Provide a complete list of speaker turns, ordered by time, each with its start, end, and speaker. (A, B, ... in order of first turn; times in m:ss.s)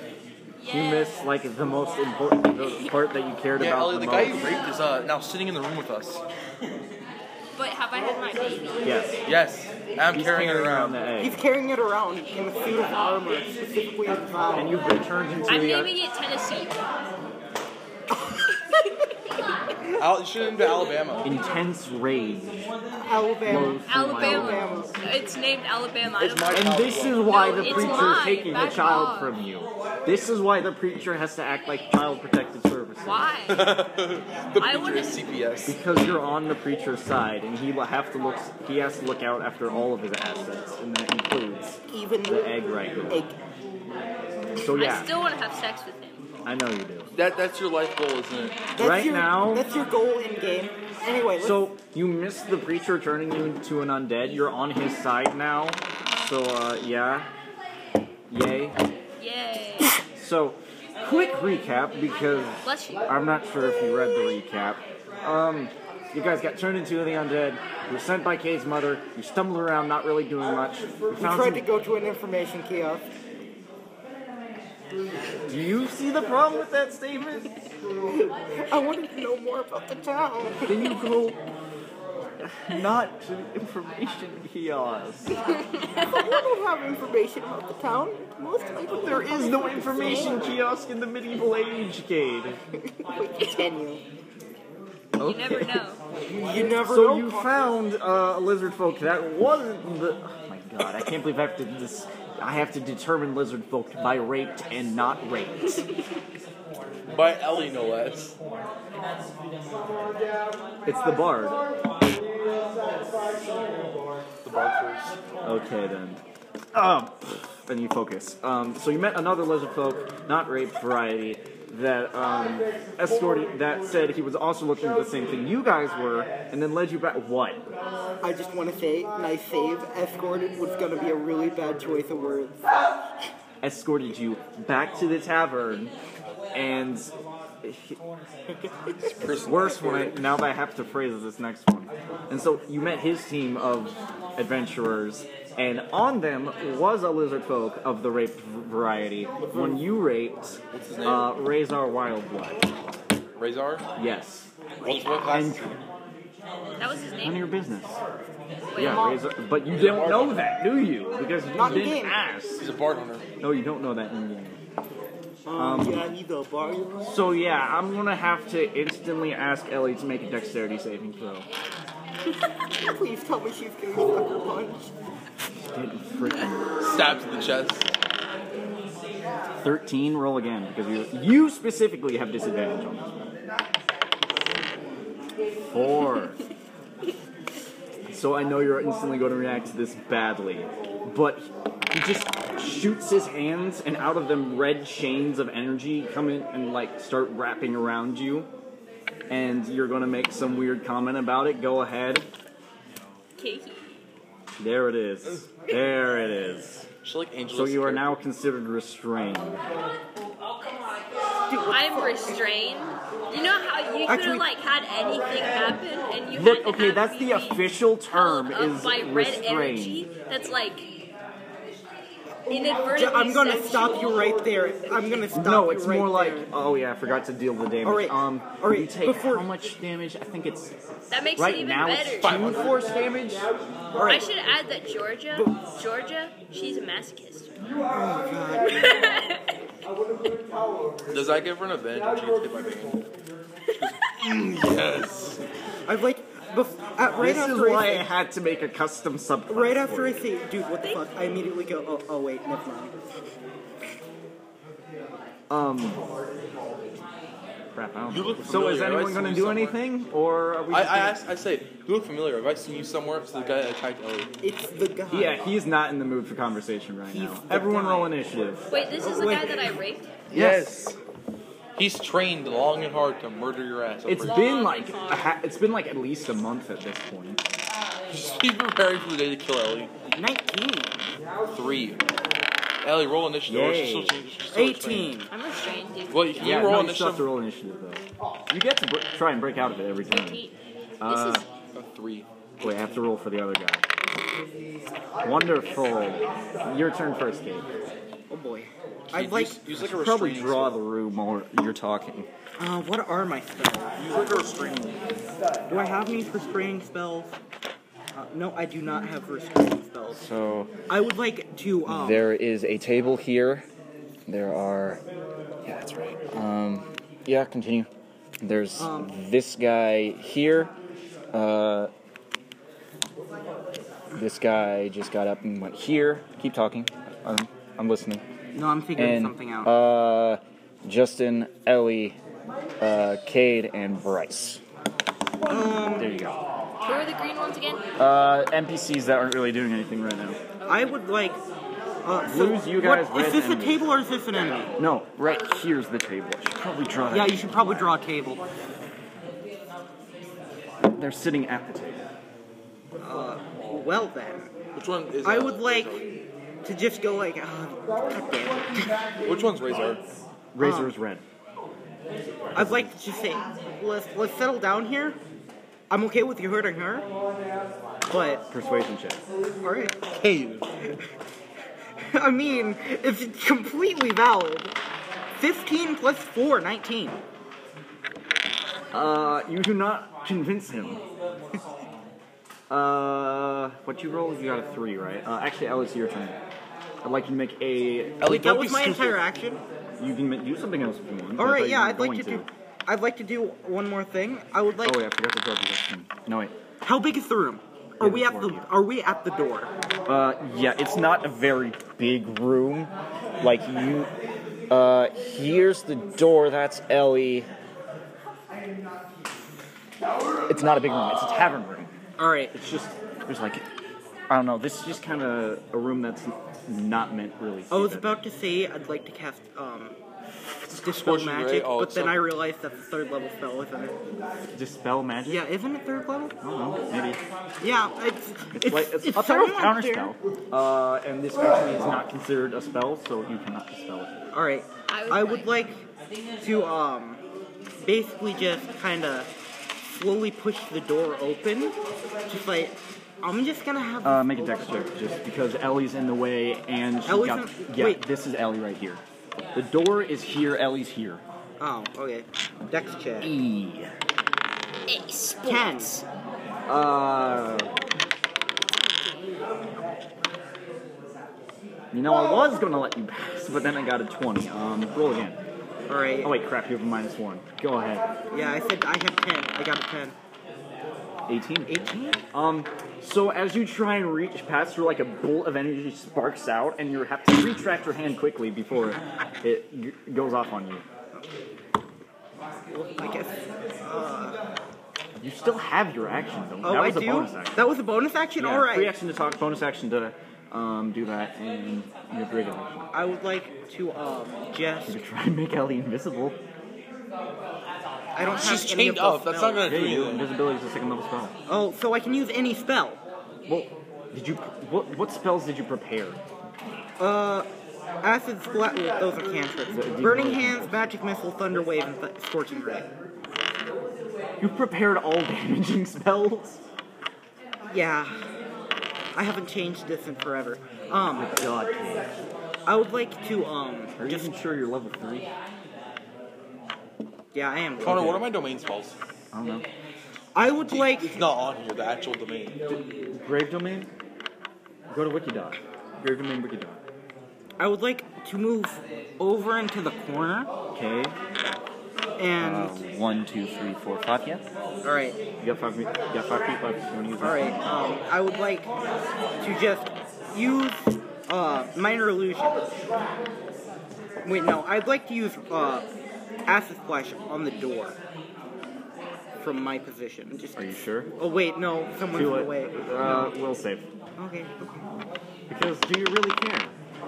0:00.6-0:01.3 A
0:00.7-0:04.6 B
0:03.6-0:06.2 C
0:07.6-0:08.9 A
0:08.8-0:09.2 B
0:09.3-0:11.0 C
0:10.1-0:11.4 B
0:11.2-0:14.8 D
0:14.6-0:16.0 B
0:15.5-0:16.8 A
0:18.1-0:18.6 D
0:20.0-0:21.3 C
0:21.2-0:22.7 B
0:23.0-0:25.0 D
0:23.4-0:24.8 B
0:23.9-0:26.7 A
0:26.2-0:28.2 C
0:26.5-0:33.3 B
0:27.2-0:29.4 A
0:33.0-0:33.8 A
0:33.5-0:35.8 C
0:34.6-0:35.4 A
0:35.7-0:43.2 B
0:41.9-0:42.6 D
0:43.1-0:43.4 D
0:44.6-0:45.1 B
0:44.8-0:46.3 A
0:46.5-0:47.1 B
0:47.1-0:48.6 C
0:48.8-0:51.6 D
0:48.8-0:49.6 B
0:51.4-0:57.3 B
0:58.3-0:58.8 B
0:59.2-0:59.9 A
1:00.1-1:11.7 B
1:02.6-1:03.1 A
1:11.2-1:13.1 D
1:15.5-1:17.5 B
1:18.7-1:20.9 D
1:20.7-1:21.4 B
1:22.4-1:25.4 B
1:26.0-1:30.5 D
1:29.0-1:32.6 B
1:33.0-1:34.0 D
1:35.2-1:35.9 B
1:35.2-1:36.0 A
1:36.3-1:37.6 D
1:36.5-1:45.9 B
1:47.1-1:48.4 C
1:50.8-1:51.6 B
1:54.4-1:55.2 C
1:55.4-1:56.2 B
1:56.7-2:07.7 B
2:08.2-2:12.6 D
2:13.6-2:15.9 B
2:16.5-2:17.1 B
2:17.6-2:18.0 B
2:19.0-2:20.2 C
2:19.4-2:32.6 B
2:30.7-2:31.4 C
2:33.4-2:33.9 C
2:34.0-2:34.5 B
2:34.8-2:35.8 C
2:35.2-2:35.7 B
2:36.8-2:37.5 A
2:37.2-2:38.0 B
2:38.7-2:39.2 A
2:38.7-2:42.7 B
2:39.7-2:40.6 C
2:41.5-2:42.2 D
2:41.6-2:42.0 C
2:42.6-2:43.3 C
2:43.4-2:44.6 B
2:45.5-2:47.1 D
2:45.6-2:46.1 B
2:47.0-2:51.5 B
2:52.7-2:54.9 D
2:55.6-2:56.7 B
2:56.8-2:57.9 C
2:59.6-3:03.2 B
3:05.7-3:06.4 B
3:08.1-3:18.5 B
3:19.3-3:22.3 B
3:23.4-3:24.0 A
3:24.6-3:26.9 B
3:27.0-3:28.1 C
3:27.5-3:29.6 B
3:31.5-3:32.1 D
3:31.6-3:40.9 A
3:34.1-3:34.4 D
3:36.3-3:40.1 B
3:42.5-3:44.3 A
3:42.7-3:46.5 D
3:45.3-3:50.8 B
3:47.8-3:49.5 D
3:51.1-3:52.5 A
3:51.3-3:53.5 B
3:52.2-3:52.9 C
3:54.0-3:54.3 D
3:54.1-3:57.5 A
3:57.9-3:59.2 D
3:58.8-3:59.4 A
4:01.1-4:03.1 C
4:03.7-4:05.4 C
4:05.9-4:08.1 D
4:07.2-4:10.3 B
4:09.5-4:13.0 D
4:15.5-4:16.0 B
4:17.7-4:21.2 B
4:18.1-4:19.8 C
4:20.7-4:24.3 C
4:24.4-4:25.5 D
4:25.1-4:28.7 B
4:27.1-4:28.2 D
4:28.7-4:30.2 A
4:28.8-4:29.6 D
4:30.3-4:31.0 C
4:30.3-4:30.8 B
4:31.8-4:34.5 C
4:34.0-4:37.4 B
4:34.2-4:35.3 A
4:38.1-4:39.9 C
4:40.1-4:41.0 D
4:41.5-4:42.0 C
4:42.8-4:45.1 C
4:43.5-4:44.2 B
4:44.5-4:45.3 D
4:45.3-4:46.6 A
4:46.1-4:47.3 C
4:46.4-4:50.4 B
4:50.1-4:51.4 A
4:51.0-4:51.4 B
4:51.7-4:53.1 C
4:52.6-4:53.8 B
4:55.2-4:57.7 B
4:58.3-4:59.6 D
4:59.1-5:00.8 C
4:59.7-5:02.3 B
5:02.6-5:04.1 D
5:04.0-5:05.0 C
5:05.7-5:07.3 D
5:08.2-5:10.2 D
5:10.2-5:10.7 B
5:10.9-5:12.3 D
5:11.9-5:13.7 B
5:14.3-5:15.0 B
5:15.6-5:17.9 B
5:18.4-5:20.7 B
5:18.8-5:19.1 D
5:21.3-5:21.9 B
5:24.1-5:28.2 B
5:28.5-5:29.7 D
5:29.0-5:32.2 B
5:32.8-5:34.6 B
5:35.5-5:36.1 D
5:35.8-5:36.4 B
5:36.8-5:37.9 A
5:38.0-5:40.4 B
5:40.6-5:40.9 A
5:40.7-5:41.4 D
5:42.0-5:44.7 D
5:42.2-5:43.8 B
5:44.8-5:48.0 B
5:47.1-5:48.4 D
5:50.8-5:52.0 B
5:53.0-5:54.5 D
5:54.8-5:56.0 C
5:55.2-5:56.0 D
5:56.6-5:59.0 D
5:59.2-6:00.0 C
6:00.5-6:01.2 B
6:00.6-6:00.9 D
6:02.6-6:03.0 B
6:02.6-6:05.2 D
6:05.9-6:07.1 D
6:08.1-6:08.4 D
6:08.5-6:09.2 B
6:09.6-6:10.0 D
6:10.2-6:10.7 C
6:12.1-6:14.7 D
6:15.4-6:17.2 D
6:18.9-6:21.0 B
6:22.7-6:26.4 B
6:27.0-6:28.2 B
6:28.2-6:29.2 C
6:28.2-6:29.6 D
6:30.0-6:32.5 B
6:31.4-6:35.0 D
6:34.8-6:36.5 B
6:36.8-6:39.7 D
6:38.0-6:38.7 B
6:40.1-6:44.1 B
6:44.7-6:47.5 B
6:50.5-6:51.9 B
6:52.2-6:52.5 D
6:52.5-6:53.7 B
6:54.3-6:58.2 B
6:57.7-7:00.0 D
7:00.7-7:02.2 C
7:00.8-7:04.0 D
7:04.5-7:05.5 B
7:05.3-7:06.4 D
7:06.4-7:07.2 B
7:07.6-7:10.1 D
7:08.5-7:14.3 B
7:14.3-7:15.8 D
7:14.9-7:15.5 A
7:16.4-7:17.2 D
7:17.8-7:19.3 D
7:19.9-7:21.8 D
7:22.3-7:24.3 D
7:24.0-7:29.0 B
7:27.1-7:28.0 D
7:29.5-7:31.2 B
7:31.6-7:33.3 D
7:33.2-7:33.9 B
7:34.9-7:36.0 A
7:35.4-7:35.9 D
7:36.7-7:37.7 B
7:41.9-7:45.4 B
7:45.9-7:46.4 D
7:46.2-7:48.1 B
7:48.3-7:50.2 D
7:51.3-8:00.8 B
7:51.7-7:52.2 D
8:02.7-8:04.4 D
8:05.2-8:07.6 B
8:06.6-8:09.0 D
8:08.4-8:12.9 B
8:12.9-8:15.0 D
8:14.9-8:16.4 B
8:18.2-8:19.7 D
8:18.2-8:20.3 C
8:19.6-8:21.3 B
8:21.5-8:23.0 D
8:23.5-8:26.2 B
8:27.0-8:27.5 D
8:28.0-8:32.9 D
8:29.7-8:30.8 B
8:34.4-8:36.6 B
8:37.7-8:38.2 D
8:39.2-8:41.4 D
8:41.2-8:42.1 B
8:42.7-8:44.3 D
8:44.0-8:45.3 B
8:47.3-8:48.2 D
8:47.8-8:49.0 C
8:47.8-8:48.3 B
8:49.3-8:49.7 B
8:50.4-8:51.3 D
8:50.6-8:52.6 C
8:52.7-8:53.9 B
8:54.9-8:56.8 B
8:57.6-9:00.5 D
9:00.7-9:01.2 B
9:02.2-9:02.8 D
9:02.4-9:04.5 B
9:04.8-9:05.2 D
9:05.4-9:07.7 B
9:07.2-9:08.7 D
9:09.4-9:12.6 D
9:14.2-9:15.9 D
9:16.5-9:18.0 D
9:19.4-9:23.4 D
9:20.6-9:21.1 B
9:22.1-9:23.9 B
9:24.2-9:24.8 D
9:25.5-9:26.7 B